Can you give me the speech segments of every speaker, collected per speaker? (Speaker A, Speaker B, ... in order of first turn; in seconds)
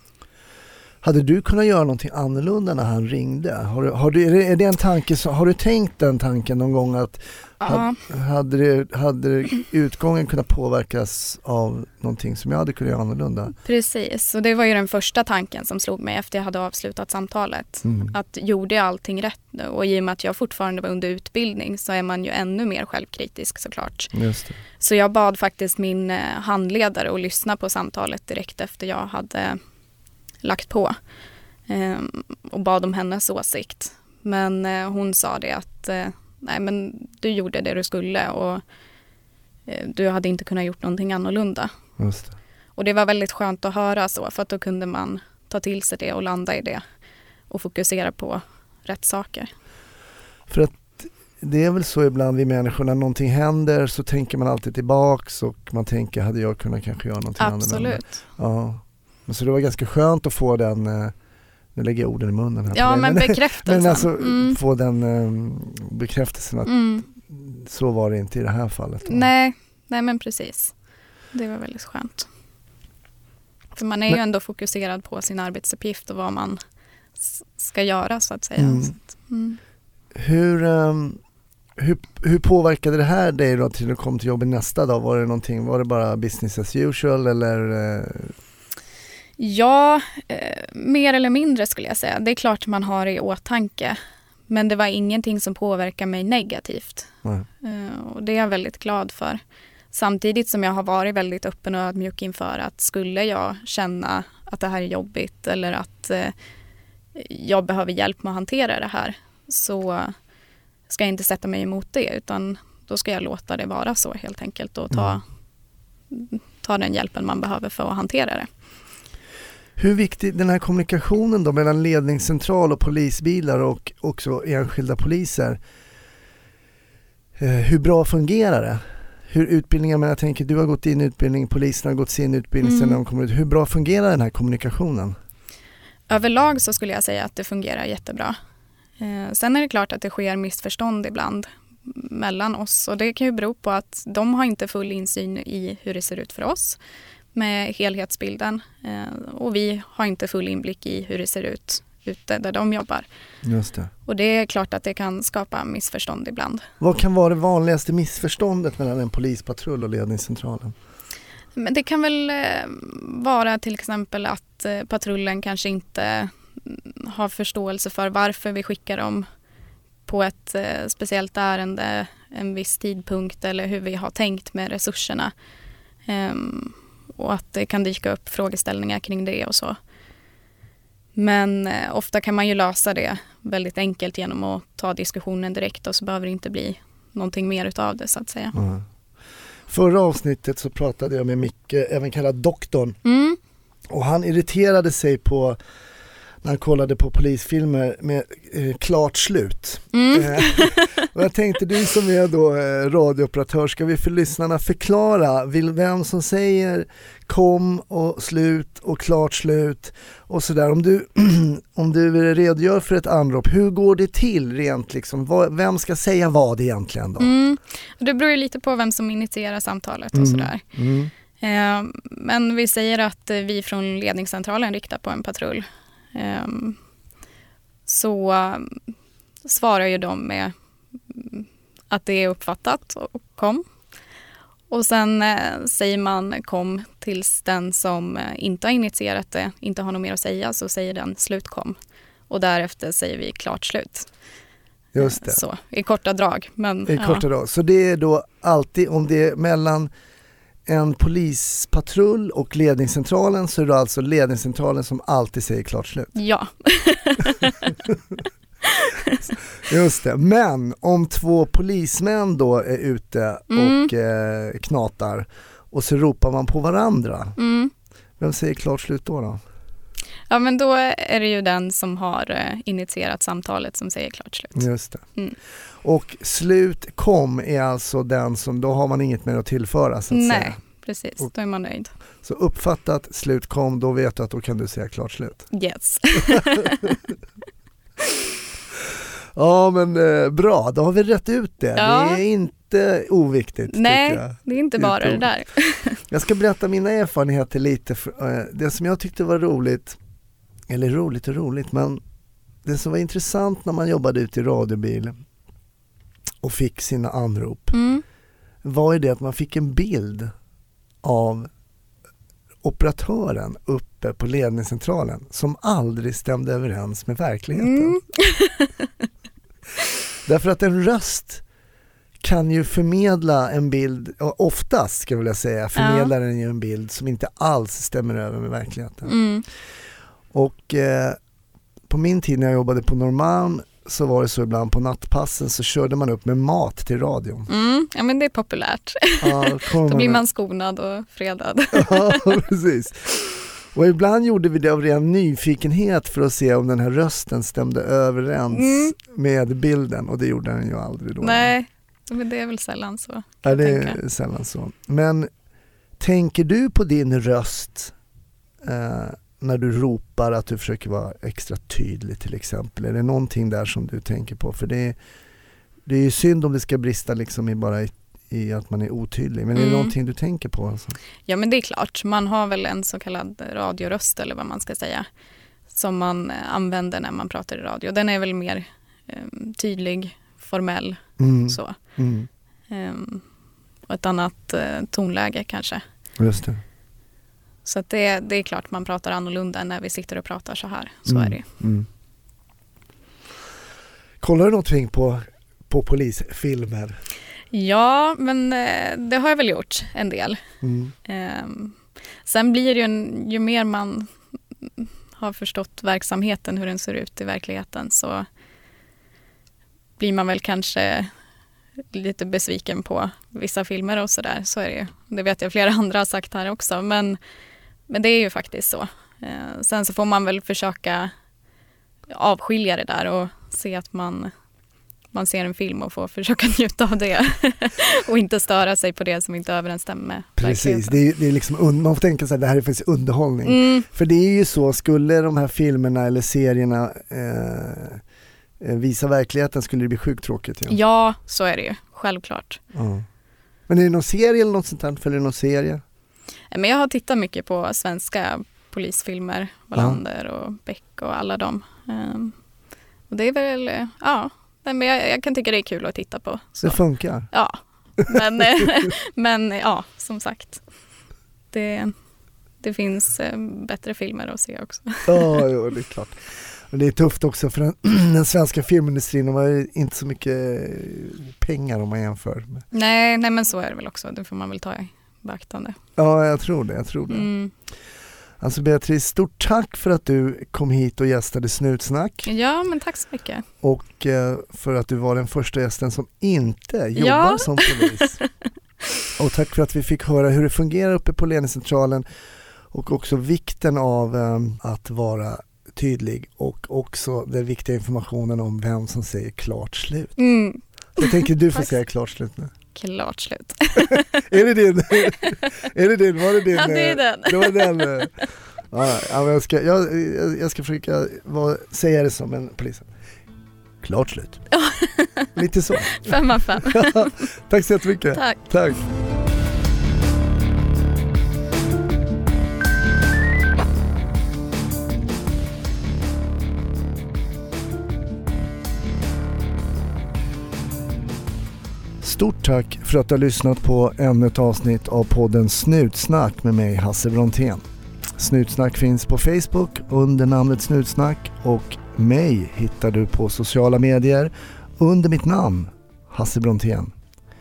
Speaker A: 1.0-13.6, 17.8-18.1, 24.1-24.6, 42.0-42.4, 50.5-61.1, 61.7-69.3, 78.6-79.0, 80.1-81.2, 81.8-88.3, 114.9-115.2, 119.8-125.6, 127.4-135.2, 153.4-153.9, 156.8-160.7, 188.5-188.9, 189.7-193.0, 193.9-195.6, 196.4-217.3, 220.1-221.1, 244.9-245.4, 246.9-249.9, 250.7-256.1, 257.9-258.2, 259.6-267.4, 268.2-269.4, 274.6-275.0, 275.8-280.6, 282.2-285.5, 286.3-286.7, 289.4-295.3, 296.1-300.0, 300.7-302.0, 302.6-305.2, 306.4-307.8, 308.6-310.3, 311.0-311.5, 312.6-318.0, 320.2-321.4, 322.2-329.1, 330.3-331.2, 331.9-337.5, 339.2-340.2, 341.7-351.6, 353.4-355.3, 356.0-357.9, 358.6-365.0, 365.9-371.0, 381.2-382.3, 386.2-386.6, 391.1-391.9, 394.2-397.0, 400.6-400.9, 430.4-438.0, 438.6-440.8, 442.7-443.1, 443.7-445.8, 449.7-450.0, 456.6-457.3, 465.1-472.6, 476.0-477.3, 478.4-482.3, 483.6-488.2, 489.1-492.1, 492.7-500.2, 500.9-502.5, 503.9-508.1, 508.7-512.9, 513.8-514.5, 515.3-518.9, 532.0-537.6, 538.2-546.9
Speaker B: 7.6-8.0, 13.6-24.1, 24.8-29.6, 30.4-31.0, 31.7-38.6, 39.6-41.7, 42.8-46.8, 47.5-49.5, 57.4-58.1, 62.7-64.6, 66.6-67.1, 69.1-70.7, 71.3-72.3, 73.7-76.6, 77.2-79.6, 89.4-99.4, 99.9-106.3, 107.1-110.2, 110.9-115.2, 116.1-118.5, 132.6-133.0, 136.1-138.4, 139.0-146.8, 147.3-153.1, 154.1-156.6, 161.6-169.3, 170.1-175.3, 176.1-179.8, 181.1-188.6, 193.0-193.4, 199.9-200.9, 217.2-220.6, 221.4-226.8, 227.9-228.8, 229.4-233.6, 234.7-241.8, 242.3-244.1, 245.0-247.2, 256.1-257.7, 258.6-259.2, 263.5-263.9, 267.4-267.7, 270.3-275.4, 280.1-281.9, 285.5-286.9, 291.8-292.2, 293.7-296.0, 307.7-308.0, 317.6-319.1, 325.8-326.1, 329.1-329.4, 337.5-342.4, 348.5-348.9, 351.2-354.0, 369.5-369.9, 371.2-375.1, 375.7-381.8, 382.7-383.2, 383.9-385.8, 387.6-391.4, 397.5-400.4, 401.1-404.1, 404.8-408.2, 410.0-411.1, 411.8-417.2, 417.9-421.1, 422.1-424.3, 425.1-431.0, 433.4-433.9, 440.7-442.6, 446.5-452.4, 453.1-460.6, 461.5-461.9, 462.6-465.4, 472.7-475.8, 477.1-477.5, 482.2-483.4, 486.9-488.3, 500.2-501.7, 502.7-504.2, 506.4-508.3, 514.5-515.3, 515.9-517.1, 518.1-518.5